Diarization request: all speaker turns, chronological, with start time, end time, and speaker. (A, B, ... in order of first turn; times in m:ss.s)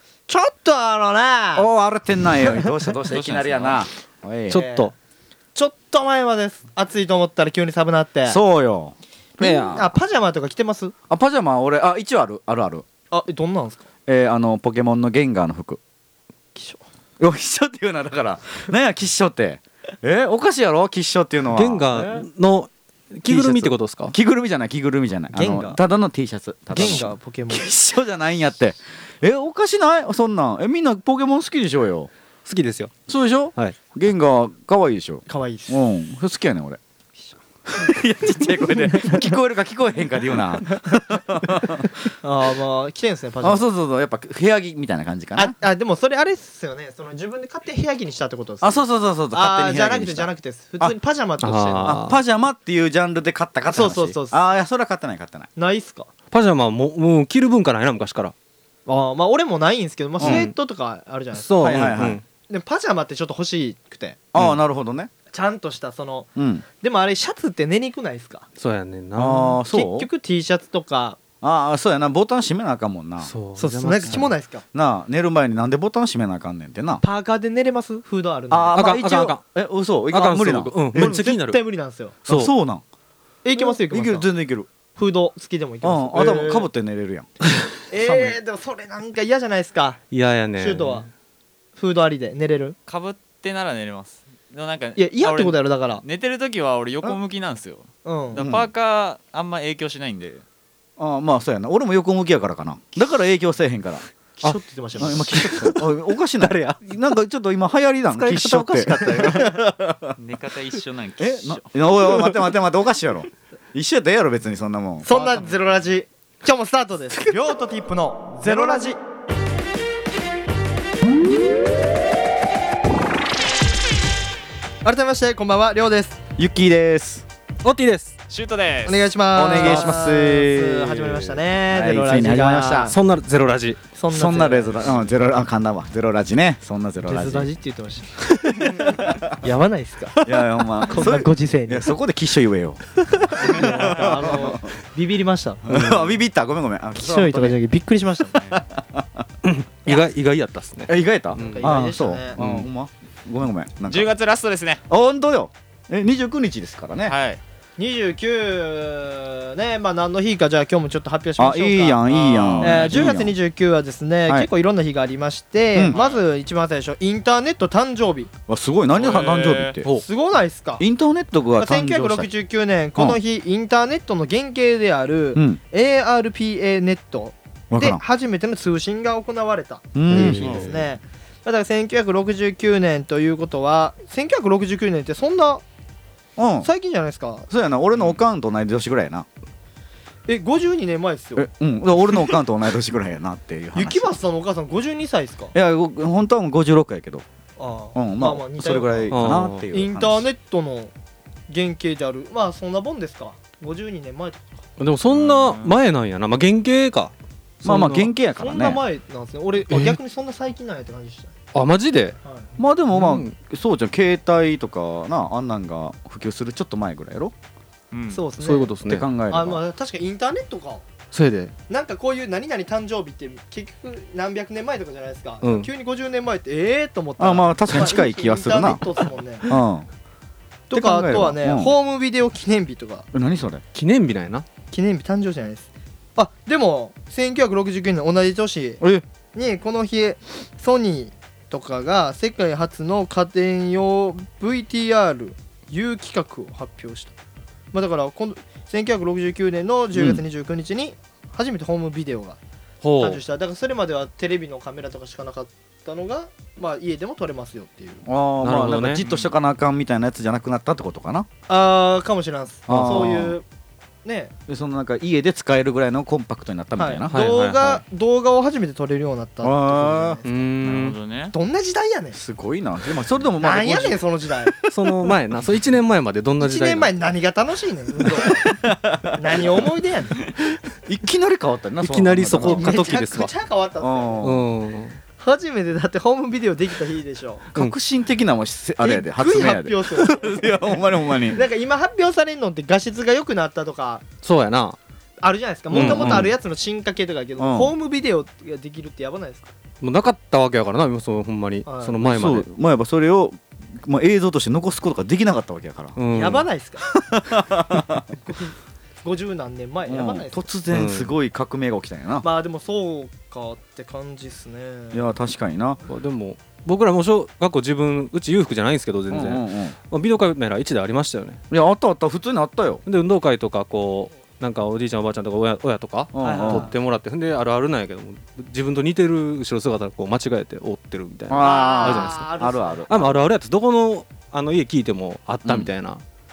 0:00.3-0:01.7 A
0:01.6-0:04.6 B
0:03.1-0:03.8 C
0:04.5-0:04.9 A
0:04.5-0:04.9 D
0:05.6-0:08.4 A
0:08.3-0:09.9 B
0:09.4-0:09.8 D
0:09.4-0:10.9 A
0:11.1-0:12.8 B
0:13.1-0:13.9 A
0:14.1-0:15.8 B
0:16.6-0:16.8 A
0:17.2-0:22.2 B
0:21.5-0:24.2 D
0:23.3-0:32.1 B
0:25.3-0:25.8 A
0:26.7-0:27.7 A
0:32.5-0:32.9 D
0:33.1-0:36.8 B
0:35.3-0:35.8 A
0:37.7-0:42.0 B
0:38.9-0:39.3 A
0:42.2-0:43.7 A
0:43.4-0:45.6 B
0:45.4-0:52.0 A
0:48.6-0:51.0 B
0:51.4-0:52.2 D
0:51.8-0:55.5 B
0:53.7-0:54.4 A
0:55.6-0:56.1 A
0:56.3-0:58.3 D
0:58.9-1:01.8 A
1:00.2-1:00.5 B
1:00.2-1:00.5 D
1:01.3-1:02.2 D
1:01.6-1:02.2 B
1:02.5-1:04.2 A
1:04.3-1:05.1 B
1:05.3-1:06.3 A
1:06.4-1:06.6 B
1:06.8-1:08.4 A
1:08.6-1:09.6 D
1:09.2-1:10.1 B
1:09.7-1:11.2 A
1:11.4-1:13.3 B
1:13.2-1:14.3 D
1:13.6-1:14.6 A
1:14.7-1:17.0 B
1:17.0-1:18.8 A
1:18.5-1:21.2 B
1:18.7-1:19.4 D
1:20.1-1:21.6 D
1:20.9-1:22.2 A
1:22.3-1:22.5 D
1:22.3-1:22.8 B
1:23.4-1:24.3 A
1:23.6-1:24.7 B
1:25.0-1:26.7 A
1:25.8-1:27.3 B
1:27.9-1:30.0 A
1:30.1-1:31.0 D
1:30.6-1:31.1 A
1:31.8-1:32.8 A
1:32.9-1:40.4 C
1:35.0-1:36.0 A
1:38.0-1:38.4 A
1:38.4-1:38.7 B
1:41.0-1:44.1 B
1:44.4-1:45.4 A
1:44.4-1:46.8 D
1:45.0-1:50.2 B
1:48.1-1:49.6 D
1:49.0-1:49.3 A
1:50.2-1:51.7 C
1:51.2-1:55.4 B
1:52.1-1:52.3 D
1:55.0-1:59.0 A
1:58.5-1:59.0 B
2:04.8-2:06.2 A
2:06.4-2:07.2 B
2:07.6-2:08.2 D
2:08.3-2:09.1 C
2:08.9-2:13.0 A
2:09.4-2:13.0 B
2:12.9-2:13.8 D
2:14.0-2:15.1 A
2:14.1-2:17.5 B
2:17.1-2:21.9 A
2:18.4-2:18.6 D
2:19.0-2:19.3 B
2:20.2-2:24.7 B
2:23.4-2:26.2 A
2:23.6-2:24.2 C
2:25.6-2:27.6 B
2:27.0-2:28.6 A
2:28.3-2:29.2 B
2:29.4-2:31.7 D
2:30.9-2:34.1 B
2:31.4-2:32.4 A
2:32.4-2:32.7 D
2:33.9-2:34.8 C
2:34.9-2:37.2 B
2:37.0-2:37.4 C
2:37.8-2:42.1 A
2:41.4-2:43.4 B
2:42.1-2:43.0 C
2:42.6-2:48.3 A
2:45.9-2:46.2 C
2:48.5-2:49.9 B
2:48.9-2:49.8 C
2:49.9-2:50.8 A
2:50.8-2:52.3 B
2:51.6-3:05.6 A
2:55.4-2:55.6 B
2:57.7-2:58.0 B
2:59.9-3:00.9 B
3:00.1-3:00.4 D
3:06.4-3:06.7 B
3:06.6-3:07.5 A
3:07.5-3:09.3 B
3:10.3-3:11.5 A
3:11.4-3:14.1 B
3:13.8-3:15.5 A
3:15.5-3:17.2 B
3:17.6-3:20.9 A
3:18.0-3:20.3 B
3:19.1-3:19.6 D
3:21.5-3:24.5 A
3:24.8-3:28.1 D
3:25.1-3:25.8 C
3:27.6-3:28.8 B
3:28.4-3:31.3 A
3:29.7-3:30.0 D
3:31.5-3:32.2 D
3:32.6-3:37.3 B
3:32.9-3:33.3 D
3:37.9-3:38.2 C
3:38.1-3:38.7 A
3:38.4-3:39.1 D
3:38.8-3:39.6 B
3:39.3-3:40.8 A
3:41.1-3:41.5 D
3:41.7-3:49.5 A
3:45.4-3:45.7 D
3:47.2-3:48.8 B
3:49.5-3:49.9 B
3:50.7-3:53.1 A
3:50.7-3:51.7 B
3:53.1-3:53.6 B
3:53.7-3:54.4 D
3:54.7-3:58.8 A
3:59.3-4:07.1 A
4:07.7-4:12.4 A
4:09.9-4:10.2 B
4:12.8-4:13.2 D
4:13.0-4:18.0 A
4:18.0-4:21.3 B
4:18.4-4:19.0 D
4:19.0-4:19.3 C
4:21.5-4:23.4 A
4:22.7-4:23.4 B
4:24.0-4:24.3 A
4:24.5-4:27.1 B
4:26.8-4:30.5 A
4:27.1-4:27.5 D
4:27.1-4:27.8 C
4:29.4-4:30.2 B
4:30.3-4:31.0 D
4:30.6-4:31.3 C
4:31.3-4:32.2 A
4:32.1-4:34.0 B
4:33.4-4:34.6 A
4:34.7-4:36.9 D
4:36.4-4:38.5 A
4:38.3-4:39.6 B
4:39.2-4:40.2 A
4:40.9-4:42.8 B
4:41.8-4:43.3 D
4:42.4-4:44.2 A
4:43.8-4:44.4 B
4:44.2-4:45.0 D
4:45.2-4:47.5 A
4:47.5-4:51.4 B
4:48.8-4:50.5 A
4:51.3-4:54.0 A
4:54.2-4:54.8 D
4:55.2-4:59.5 A
4:55.7-4:56.3 B
4:55.7-4:56.3 D
4:57.4-4:57.7 B
4:59.8-5:02.5 D
5:01.7-5:02.0 A
5:02.0-5:06.0 B
5:06.0-5:06.5 D
5:06.1-5:06.8 A
5:07.0-5:08.1 B
5:08.3-5:08.5 A
5:09.0-5:10.4 A
5:09.9-5:12.3 B
5:10.7-5:11.1 D
5:12.2-5:15.1 A
5:14.9-5:15.8 B
5:15.9-5:21.4 D
5:19.1-5:19.8 B
5:21.5-5:22.8 B
5:22.9-5:32.3 D
5:26.1-5:26.7 B
5:26.2-5:26.7 A
5:31.3-5:33.1 B
5:31.4-5:32.9 A
5:32.9-5:36.0 D
5:35.4-5:35.7 B